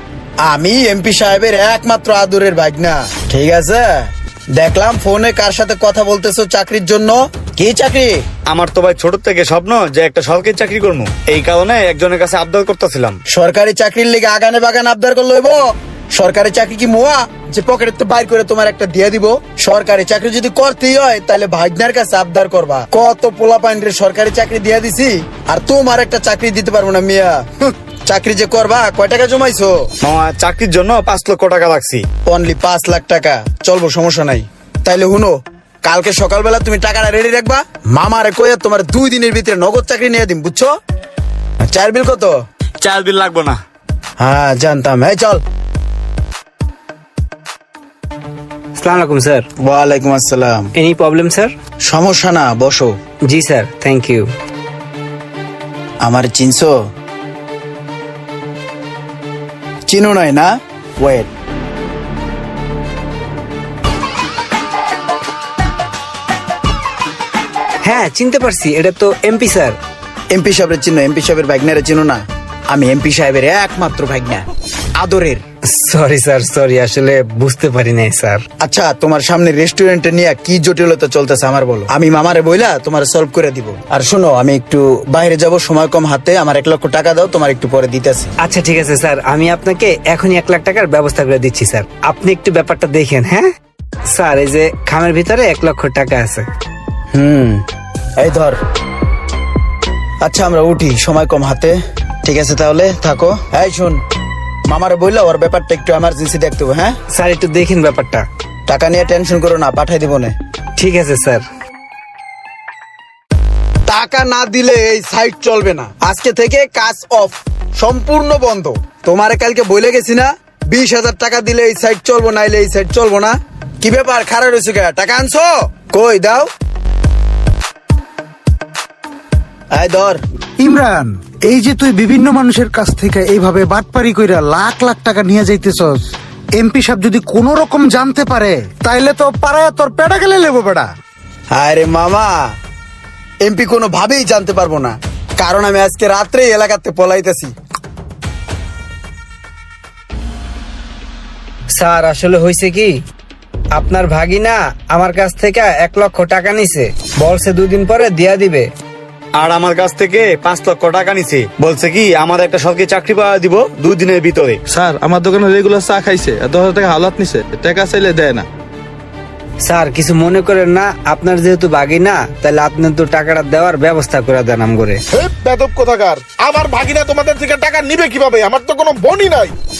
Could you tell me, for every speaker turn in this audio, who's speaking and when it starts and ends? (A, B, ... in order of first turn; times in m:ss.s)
0:00.4-0:08.2 A
0:08.5-0:13.2 B
0:13.3-0:29.8 A
0:30.0-0:32.0 B
0:32.3-0:40.7 A
0:41.6-0:42.3 A
0:42.8-0:43.6 B
0:44.2-0:45.4 A
0:48.8-0:49.4 C
0:49.6-0:50.7 A
0:50.7-0:51.5 C
0:51.8-0:52.9 A
0:53.3-0:54.3 C
0:56.0-0:56.7 A
0:59.9-1:01.3 A
1:07.8-1:09.8 C
1:10.3-1:12.2 A
1:12.7-1:14.4 A
1:15.0-1:15.4 A
1:15.7-1:18.4 C
1:18.6-1:28.3 A
1:28.4-1:33.5 C
1:34.1-1:36.4 C
1:37.1-1:37.6 A
1:38.2-1:38.6 A
1:40.2-1:44.0 A
1:44.7-1:46.9 A
1:47.1-1:48.2 C
1:48.7-1:50.3 A
1:50.8-1:51.4 C
1:53.9-2:06.5 A
2:09.7-2:10.2 A
2:10.6-2:20.9 D
2:21.5-2:22.3 A
2:23.4-2:27.5 A
2:31.7-2:33.0 C
2:33.7-2:38.7 C
2:39.4-2:44.6 B
2:44.7-2:48.5 E
2:49.6-2:55.0 C
2:55.1-2:59.5 F